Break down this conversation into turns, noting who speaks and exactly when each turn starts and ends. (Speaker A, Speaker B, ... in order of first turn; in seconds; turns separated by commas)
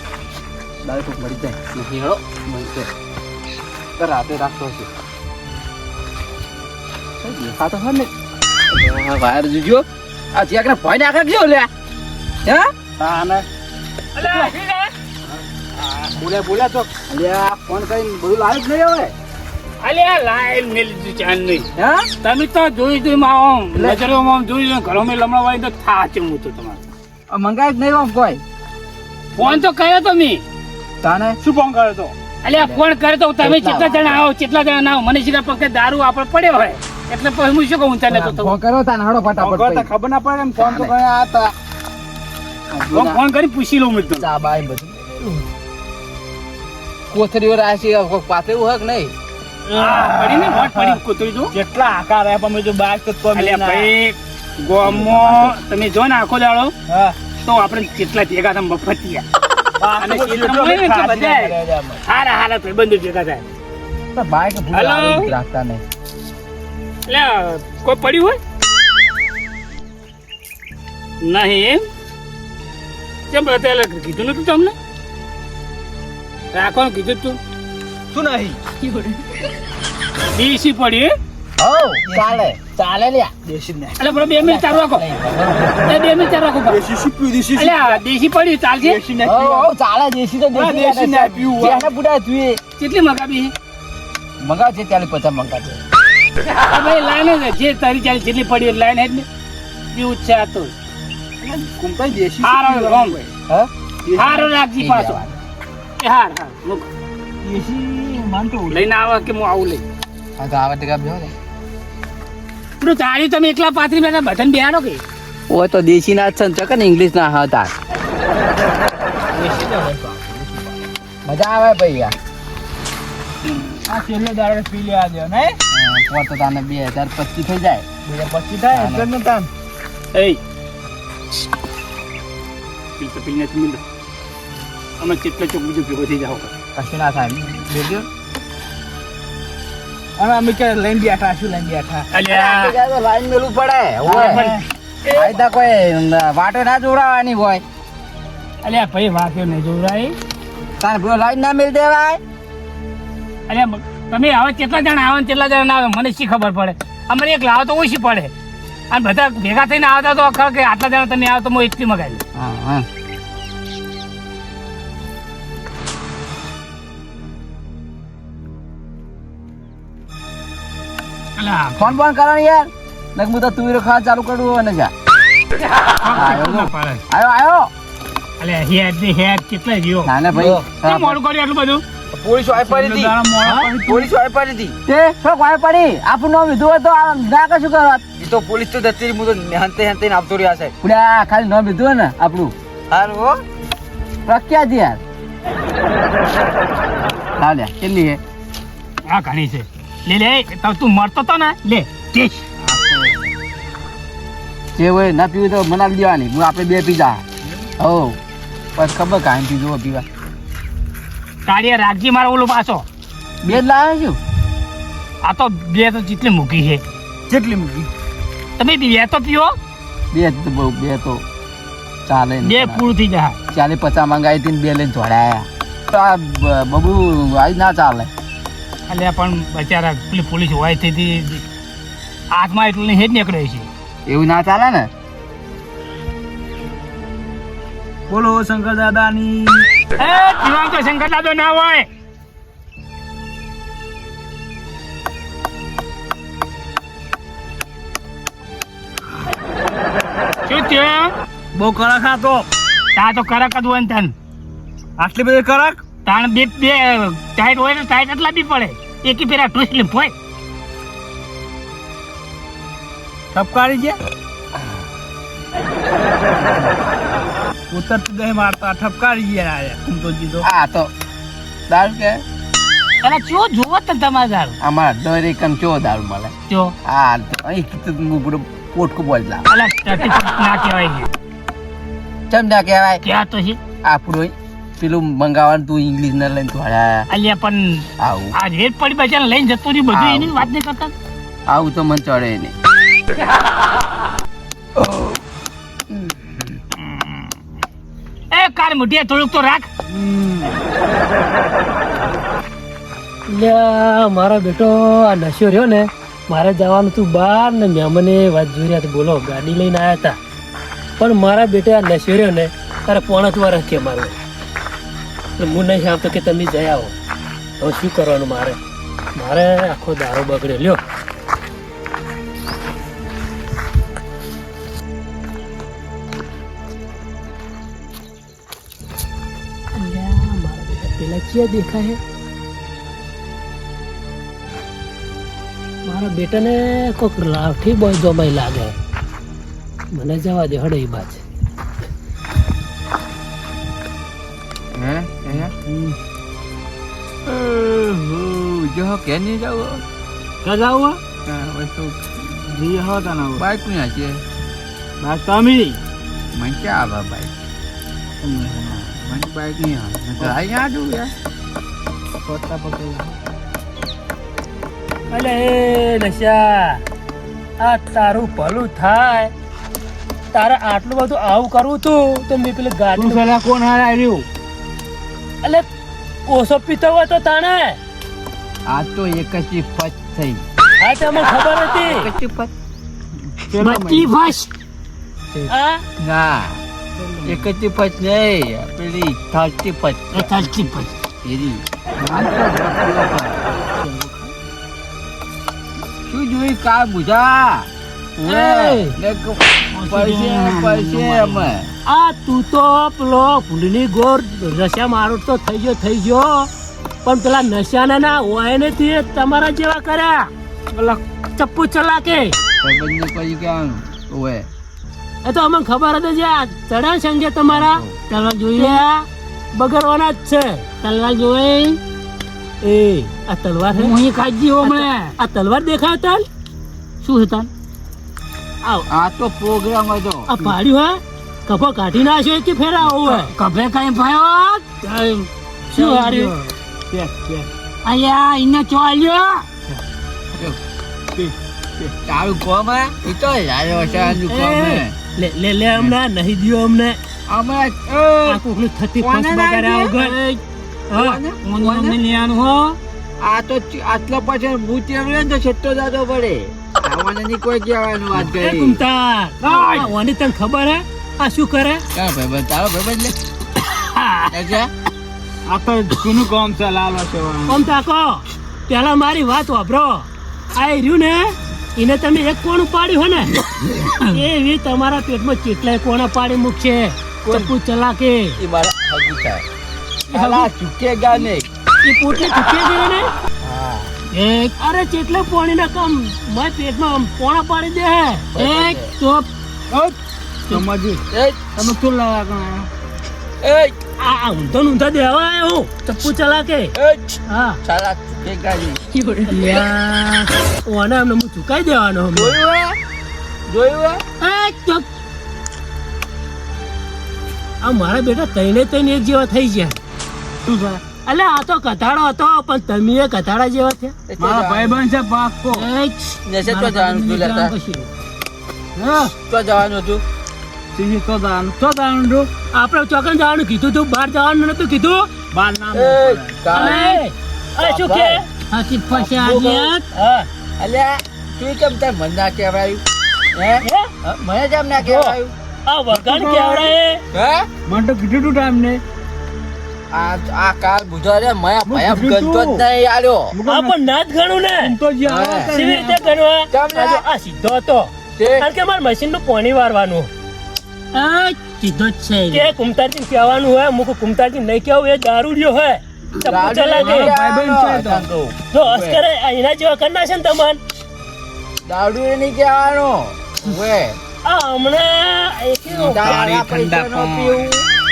Speaker A: 0.8-2.9, Speaker A: 4.0-4.9, Speaker A: 7.2-8.0, Speaker A: 8.7-11.7, Speaker A: 12.4-12.7, Speaker B: 13.0-13.4, Speaker C: 14.1-14.9, Speaker B: 14.2-14.5, Speaker B: 15.8-16.9, Speaker A: 17.1-19.1, Speaker C: 19.8-21.7, Speaker A: 21.8-22.1, Speaker C: 22.2-26.8, Speaker A: 23.8-24.0, Speaker A: 27.3-28.4, Speaker C: 29.4-30.4, Speaker A: 31.0-31.4, Speaker B: 31.4-32.1, Speaker C: 32.4-38.6, Speaker A: 32.5-32.8, Speaker A: 33.4-34.3, Speaker A: 38.1-39.9, Speaker B: 39.4-41.5, Speaker A: 40.6-40.9, Speaker A: 42.7-43.2, Speaker C: 42.9-44.3, Speaker A: 44.1-45.4, Speaker A: 47.1-49.1, Speaker C: 49.7-51.5, Speaker B: 49.8-51.0, Speaker B: 51.5-53.9, Speaker C: 53.3-56.8, Speaker A: 54.8-55.6, Speaker B: 56.9-57.1, Speaker C: 57.4-59.2, Speaker B: 59.8-62.0, Speaker C: 60.0-63.5, Speaker A: 64.1-65.8, Speaker C: 64.7-65.3, Speaker C: 67.1-68.4, Speaker C: 71.2-71.9, Speaker C: 73.3-74.8, Speaker C: 76.5-77.4, Speaker B: 78.1-78.6, Speaker C: 80.3-81.1, Speaker A: 81.6-83.3, Speaker B: 82.0-82.4, Speaker B: 83.5-84.0, Speaker C: 84.0-85.0, Speaker A: 84.4-86.4, Speaker C: 85.8-86.8, Speaker B: 86.7-88.0, Speaker C: 87.5-89.0, Speaker B: 88.8-89.7, Speaker A: 89.2-92.6, Speaker B: 90.5-91.9, Speaker C: 92.8-93.5, Speaker A: 94.4-95.8, Speaker C: 96.4-99.3, Speaker C: 99.9-100.7, Speaker B: 101.4-103.3, Speaker C: 102.4-103.2, Speaker A: 103.5-105.4, Speaker B: 104.0-104.5, Speaker C: 104.1-105.2, Speaker C: 106.0-106.9, Speaker B: 107.4-108.9, Speaker C: 108.7-109.8, Speaker A: 110.4-111.3, Speaker C: 112.8-115.0, Speaker A: 115.5-117.7, Speaker B: 119.3-120.7, Speaker A: 121.2-122.1, Speaker B: 123.8-125.6, Speaker A: 125.7-127.8, Speaker B: 128.1-129.5, Speaker A: 128.7-129.1, Speaker C: 130.1-130.4, Speaker C: 133.0-133.8, Speaker C: 135.0-136.5, Speaker A: 136.8-138.1, Speaker B: 140.2-142.1, Speaker C: 142.1-142.8, Speaker A: 142.2-144.5, Speaker B: 144.0-144.6, Speaker C: 144.2-144.6, Speaker A: 145.1-147.6, Speaker C: 148.6-150.2, Speaker A: 150.8-152.2, Speaker C: 153.5-158.3, Speaker C: 158.9-162.2, Speaker A: 162.3-162.9, Speaker C: 171.4-172.0, Speaker A: 171.8-174.9, Speaker C: 176.0-177.0, Speaker A: 176.1-177.7, Speaker C: 178.4-181.8, Speaker A: 180.0-181.2, Speaker B: 182.2-184.1, Speaker A: 182.4-182.8, Speaker A: 183.8-188.5, Speaker D: 184.3-184.8, Speaker D: 188.3-190.7, Speaker A: 190.7-192.5, Speaker D: 192.9-193.3, Speaker A: 194.2-195.0, Speaker A: 197.3-198.2, Speaker C: 199.1-202.4, Speaker B: 202.7-203.1, Speaker A: 204.8-207.2, Speaker A: 207.8-208.2, Speaker A: 208.8-210.1, Speaker C: 211.4-212.8, Speaker A: 213.4-214.2, Speaker C: 215.2-216.8, Speaker B: 217.3-217.9, Speaker C: 218.6-219.6, Speaker A: 220.1-221.2, Speaker A: 222.1-222.9, Speaker C: 222.4-223.4, Speaker A: 223.5-228.1, Speaker C: 228.9-231.4, Speaker C: 232.3-233.7, Speaker A: 234.1-234.9, Speaker B: 238.1-239.7, Speaker C: 240.0-241.9, Speaker C: 250.4-251.1, Speaker B: 251.5-252.5, Speaker C: 252.9-254.1, Speaker B: 255.0-255.8, Speaker C: 256.0-260.1, Speaker B: 263.3-264.0, Speaker B: 267.7-270.4, Speaker A: 270.4-270.9, Speaker A: 271.7-272.2, Speaker C: 273.0-274.6, Speaker A: 274.6-276.3, Speaker C: 276.5-276.8, Speaker A: 276.9-279.4, Speaker C: 279.5-281.1, Speaker A: 282.3-283.0, Speaker C: 283.0-283.6, Speaker A: 283.8-287.1, Speaker C: 287.1-290.9, Speaker A: 288.0-288.4, Speaker A: 289.9-290.5, Speaker A: 291.5-292.5, Speaker A: 294.8-295.1, Speaker A: 295.9-296.5, Speaker C: 298.3-299.7, Speaker B: 299.9-300.6, Speaker E: 303.3-310.2, Speaker E: 311.0-314.2, Speaker E: 315.4-316.9, Speaker E: 317.6-318.6, Speaker E: 319.1-320.8, Speaker E: 329.8-332.0, Speaker E: 335.8-338.8, Speaker E: 339.9-341.2, Speaker A: 344.7-345.5, Speaker B: 345.3-345.9, Speaker A: 347.2-349.8, Speaker B: 350.4-351.0, Speaker A: 351.2-352.2, Speaker B: 352.4-353.4, Speaker A: 353.4-354.2, Speaker B: 355.0-355.8, Speaker A: 356.3-357.3, Speaker B: 358.2-358.8, Speaker A: 358.7-361.1, Speaker B: 362.2-363.1, Speaker E: 365.1-366.8, Speaker E: 367.6-369.3, Speaker E: 370.3-373.2, Speaker B: 372.9-374.2, Speaker E: 375.4-375.7, Speaker E: 376.2-377.8, Speaker A: 378.7-380.4, Speaker E: 380.8-382.1, Speaker A: 381.8-382.5, Speaker B: 383.3-384.1, Speaker E: 383.6-384.5, Speaker E: 385.5-385.9, Speaker A: 386.0-386.6, Speaker B: 387.0-387.5, Speaker A: 387.2-390.6, Speaker E: 390.2-390.9, Speaker A: 391.2-393.4, Speaker B: 392.0-392.4, Speaker B: 393.7-394.3, Speaker A: 396.0-401.7, Speaker E: 398.2-398.9, Speaker B: 399.7-401.5, Speaker E: 401.9-406.5, Speaker E: 407.0-410.3, Speaker C: 410.7-411.0, Speaker E: 411.4-412.4, Speaker A: 412.6-414.5, Speaker E: 415.2-417.8, Speaker A: 417.5-418.0, Speaker C: 418.1-418.9, Speaker E: 418.5-420.7, Speaker C: 420.8-421.8, Speaker E: 422.6-423.9, Speaker C: 423.7-425.1, Speaker E: 424.6-426.2, Speaker C: 427.0-427.5, Speaker A: 428.9-430.3, Speaker E: 430.3-433.3, Speaker C: 433.0-435.3, Speaker B: 435.7-436.3, Speaker E: 435.7-436.3, Speaker B: 436.9-437.5, Speaker C: 437.8-439.5, Speaker A: 440.3-440.6, Speaker B: 441.1-441.9, Speaker A: 442.0-444.9, Speaker E: 443.9-447.0, Speaker A: 447.3-448.4, Speaker E: 448.2-450.1, Speaker A: 449.0-450.0, Speaker C: 450.0-450.4, Speaker A: 450.9-452.0, Speaker C: 451.4-452.8, Speaker A: 453.2-458.8, Speaker E: 458.1-461.8, Speaker B: 459.4-459.9, Speaker A: 461.9-463.1, Speaker E: 463.8-464.3, Speaker A: 464.3-464.7, Speaker B: 465.5-467.6, Speaker E: 467.5-473.4, Speaker E: 474.1-478.4, Speaker A: 477.2-477.5, Speaker A: 478.4-479.4, Speaker E: 480.1-480.5, Speaker A: 480.1-481.5, Speaker E: 481.8-483.1, Speaker A: 483.4-483.9, Speaker C: 484.1-484.5, Speaker E: 484.6-488.3, Speaker A: 488.4-488.9, Speaker C: 488.4-489.3, Speaker B: 489.7-489.9, Speaker B: 490.5-491.0, Speaker A: 491.1-491.4, Speaker B: 491.5-492.7, Speaker A: 493.4-493.8, Speaker E: 494.0-496.7, Speaker A: 496.8-498.8, Speaker E: 497.3-497.6, Speaker C: 499.0-499.3, Speaker E: 499.2-502.4, Speaker A: 502.1-502.8, Speaker A: 503.5-504.0, Speaker E: 504.2-504.9, Speaker E: 507.6-509.8, Speaker B: 510.4-510.8, Speaker E: 511.0-513.9, Speaker A: 514.1-514.8, Speaker B: 514.2-515.7, Speaker E: 515.5-517.9, Speaker A: 516.2-517.5, Speaker B: 518.8-519.1, Speaker A: 519.2-520.0, Speaker B: 520.7-522.3, Speaker E: 522.5-525.1, Speaker B: 525.3-526.8, Speaker A: 525.7-526.9, Speaker E: 526.5-528.3, Speaker C: 526.6-526.9, Speaker A: 527.5-528.2, Speaker C: 528.5-529.8, Speaker A: 528.9-529.8, Speaker E: 529.9-530.3, Speaker A: 530.6-535.3, Speaker E: 533.6-533.9, Speaker E: 534.8-537.0, Speaker B: 535.9-536.7, Speaker A: 537.1-537.5, Speaker B: 537.6-538.8, Speaker A: 539.9-543.4, Speaker B: 541.6-542.6, Speaker B: 543.3-543.8, Speaker E: 543.5-544.8, Speaker B: 544.6-546.0, Speaker A: 545.0-545.6, Speaker E: 545.5-550.1, Speaker A: 546.5-547.0, Speaker A: 548.2-548.5, Speaker C: 550.9-552.5, Speaker E: 552.3-557.1, Speaker A: 556.2-559.0, Speaker B: 556.8-558.1, Speaker E: 558.5-560.6, Speaker A: 561.6-564.0, Speaker E: 564.2-566.1, Speaker A: 565.7-567.7, Speaker B: 566.0-567.5